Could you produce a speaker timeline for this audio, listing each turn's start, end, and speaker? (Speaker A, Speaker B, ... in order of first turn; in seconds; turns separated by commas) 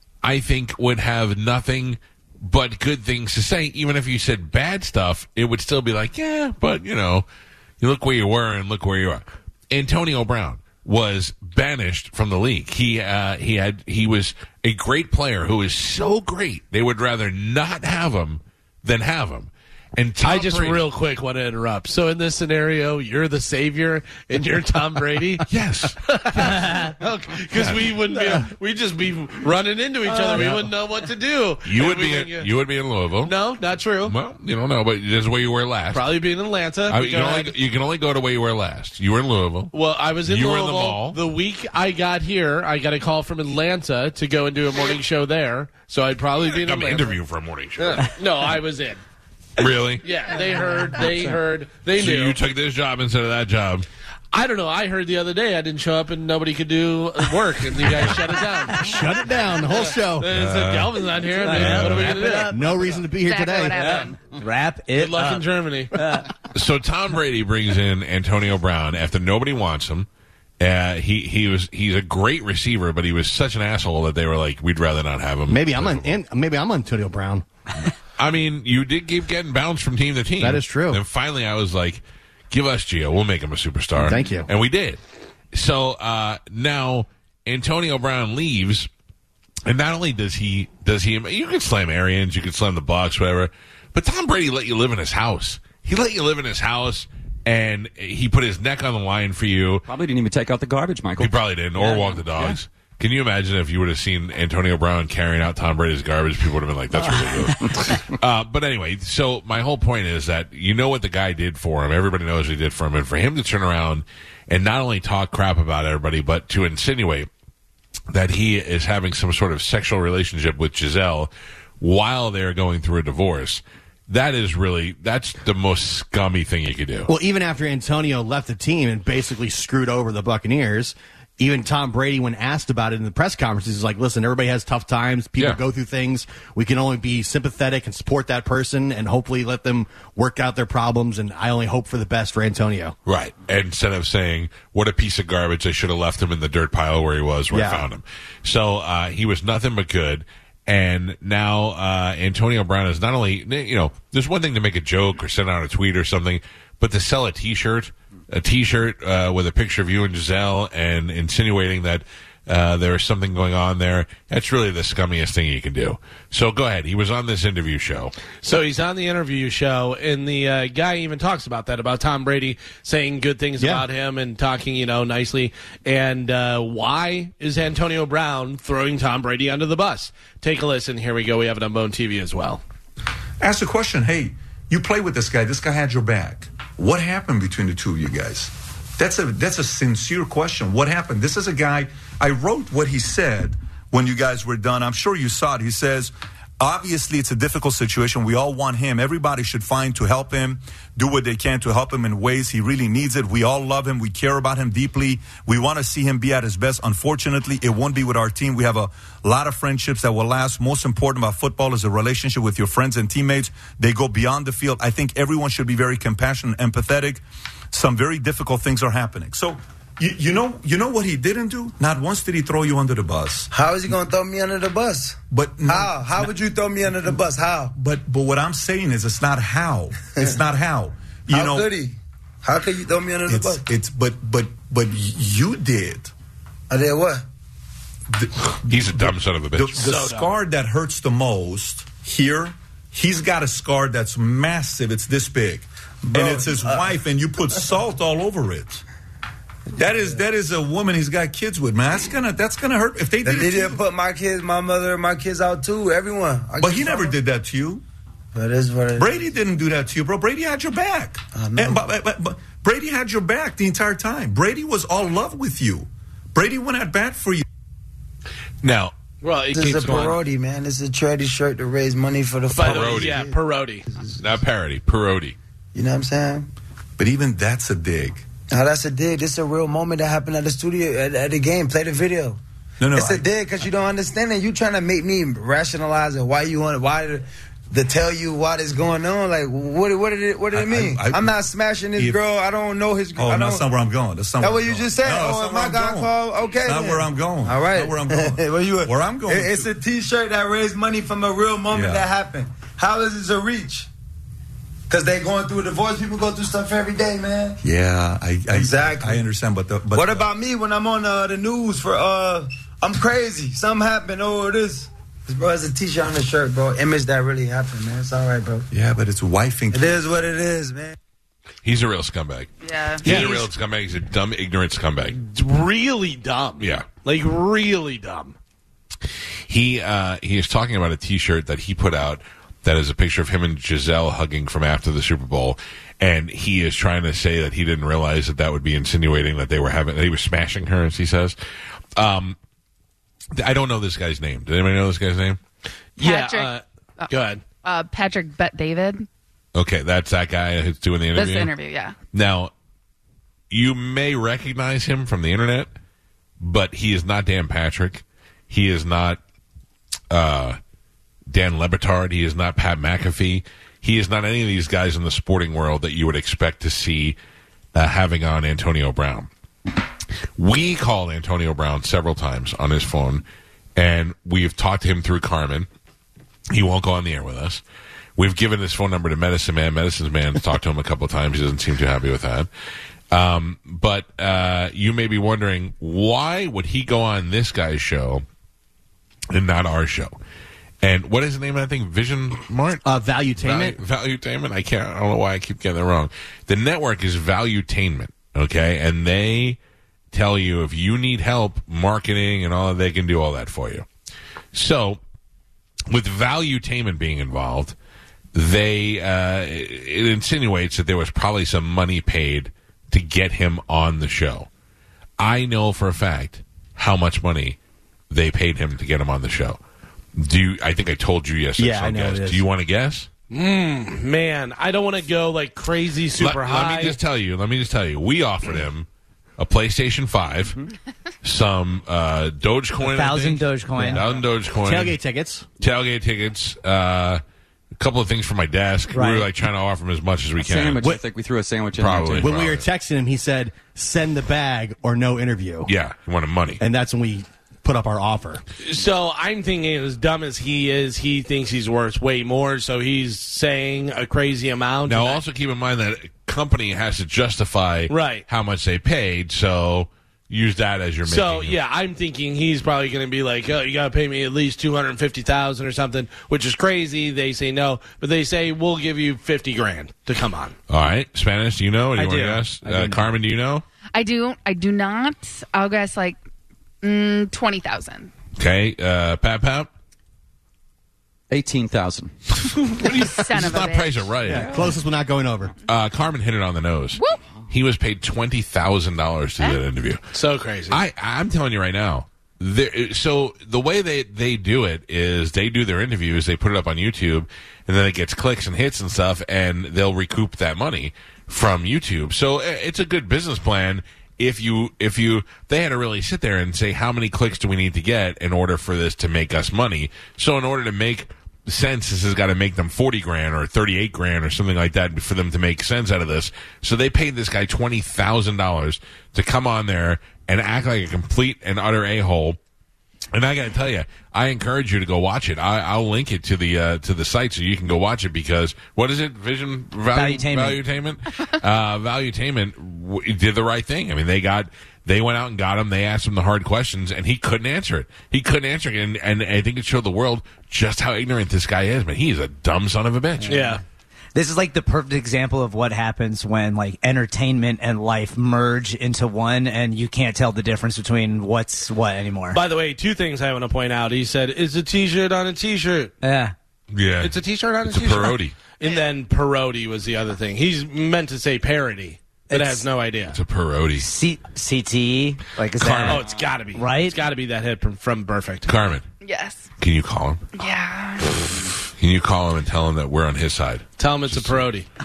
Speaker A: 0.2-7.2, Speaker A: 7.8-20.9, Speaker B: 20.2-25.5, Speaker A: 25.5-26.5, Speaker B: 26.0-32.5, Speaker C: 26.6-26.8, Speaker A: 27.5-27.9, Speaker C: 30.1-30.6, Speaker A: 31.6-33.4, Speaker B: 33.2-34.2, Speaker A: 34.0-36.2, Speaker B: 35.9-37.5, Speaker A: 36.9-39.7, Speaker B: 39.7-47.2, Speaker A: 40.3-41.2, Speaker A: 46.4-48.1, Speaker B: 47.8-49.0, Speaker A: 49.6-50.1, Speaker B: 50.0-52.4, Speaker A: 52.0-53.9, Speaker B: 54.3-58.8, Speaker C: 58.7-59.0, Speaker D: 58.8-60.3, Speaker B: 59.7-62.5, Speaker A: 60.2-62.1, Speaker C: 61.4-63.0, Speaker D: 61.6-63.9, Speaker E: 63.2-64.2, Speaker C: 63.7-66.3, Speaker B: 65.0-65.9, Speaker A: 66.5-70.1, Speaker A: 70.6-76.2, Speaker D: 75.5-77.5, Speaker A: 78.2-85.0, Speaker D: 80.4-81.0, Speaker D: 84.0-84.5, Speaker A: 85.5-88.9, Speaker A: 89.7-99.9, Speaker F: 99.9-102.6, Speaker A: 101.2-117.3, Speaker A: 118.1-127.1, Speaker D: 127.1-142.9, Speaker A: 135.4-135.6, Speaker A: 143.1-168.2, Speaker D: 147.5-147.9, Speaker B: 168.4-182.6, Speaker D: 173.6-173.8, Speaker G: 183.4-223.5, Speaker H: 223.5-227.8, Speaker G: 225.3-226.3, Speaker G: 227.8-231.7, Speaker H: 231.3-233.6, Speaker G: 233.3-236.1, Speaker H: 236.7-237.2, Speaker G: 238.1-248.8, Speaker A: 238.7-239.9, Speaker B: 239.8-240.3, Speaker H: 246.1-246.9, Speaker G: 249.8-253.8, Speaker H: 253.2-257.1, Speaker G: 256.6-257.8, Speaker H: 258.3-259.2, Speaker G: 259.0-267.4, Speaker H: 261.4-261.8, Speaker A: 268.6-268.9, Speaker B: 269.2-270.2, Speaker H: 269.5-273.4, Speaker B: 272.5-273.9, Speaker A: 272.6-273.1, Speaker H: 273.9-274.2, Speaker A: 274.2-275.4, Speaker H: 275.7-276.5, Speaker G: 277.0-278.2, Speaker H: 278.5-282.4, Speaker G: 282.8-283.2, Speaker H: 282.9-293.7, Speaker G: 290.5-291.4, Speaker G: 292.0-292.2, Speaker G: 293.2-299.7, Speaker H: 294.4-303.9, Speaker G: 301.7-302.1, Speaker H: 304.9-307.6, Speaker G: 307.6-310.3, Speaker H: 308.5-309.2, Speaker H: 309.9-318.7, Speaker G: 318.7-320.0, Speaker H: 319.7-321.0, Speaker A: 321.6-322.5, Speaker E: 322.6-323.1, Speaker A: 323.0-325.2, Speaker B: 323.0-323.5, Speaker B: 325.2-328.4, Speaker A: 326.6-326.9, Speaker A: 329.5-341.4, Speaker A: 341.9-342.4, Speaker A: 343.4-345.4, Speaker B: 346.0-347.4, Speaker E: 346.0-349.1, Speaker A: 349.6-351.5, Speaker E: 351.1-352.0, Speaker A: 352.1-352.5, Speaker A: 353.5-355.7, Speaker A: 356.4-359.2, Speaker A: 360.1-360.6, Speaker A: 361.3-367.2, Speaker A: 367.7-369.3, Speaker A: 370.4-373.2, Speaker A: 373.8-375.7, Speaker A: 376.5-377.6, Speaker A: 378.2-382.5, Speaker A: 383.1-388.2, Speaker A: 389.3-390.2, Speaker A: 390.8-392.8, Speaker D: 392.9-393.8, Speaker A: 393.4-399.6, Speaker A: 400.1-403.9, Speaker A: 404.5-405.0, Speaker A: 405.9-407.8, Speaker A: 408.3-414.5, Speaker A: 415.2-417.6, Speaker A: 418.1-419.6, Speaker A: 420.2-423.1, Speaker D: 421.6-422.4, Speaker B: 423.3-427.0, Speaker A: 426.1-428.9, Speaker A: 429.4-430.6, Speaker A: 431.2-435.0, Speaker C: 432.8-434.1, Speaker D: 434.6-435.5, Speaker A: 435.6-437.2, Speaker A: 437.8-440.9, Speaker C: 438.9-439.3, Speaker F: 440.4-442.3, Speaker A: 441.8-442.7, Speaker D: 442.2-445.7, Speaker A: 445.7-446.6, Speaker D: 446.6-448.4, Speaker B: 448.6-455.2, Speaker A: 454.9-461.6, Speaker B: 457.9-458.2, Speaker B: 461.1-470.6, Speaker A: 470.7-473.6, Speaker C: 472.0-473.1, Speaker E: 473.9-476.2, Speaker E: 476.8-478.1, Speaker A: 478.4-479.7, Speaker F: 481.3-482.1, Speaker A: 482.4-484.7, Speaker E: 482.8-484.1, Speaker D: 484.3-485.5, Speaker A: 485.6-490.1, Speaker E: 487.0-487.2, Speaker B: 490.1-490.8, Speaker A: 490.7-522.4, Speaker A: 523.1-543.5, Speaker C: 529.9-530.6, Speaker C: 543.2-543.6, Speaker B: 543.3-543.6, Speaker C: 544.1-552.4, Speaker B: 552.3-555.9, Speaker C: 556.0-556.3, Speaker A: 556.7-558.4, Speaker B: 557.0-563.2, Speaker C: 562.3-562.7, Speaker A: 563.1-563.9, Speaker C: 563.8-567.0, Speaker A: 565.6-566.0, Speaker B: 565.9-568.5, Speaker A: 568.5-568.9, Speaker E: 569.0-569.5, Speaker A: 569.6-570.3, Speaker E: 570.4-571.1, Speaker A: 571.7-574.5, Speaker B: 573.8-574.7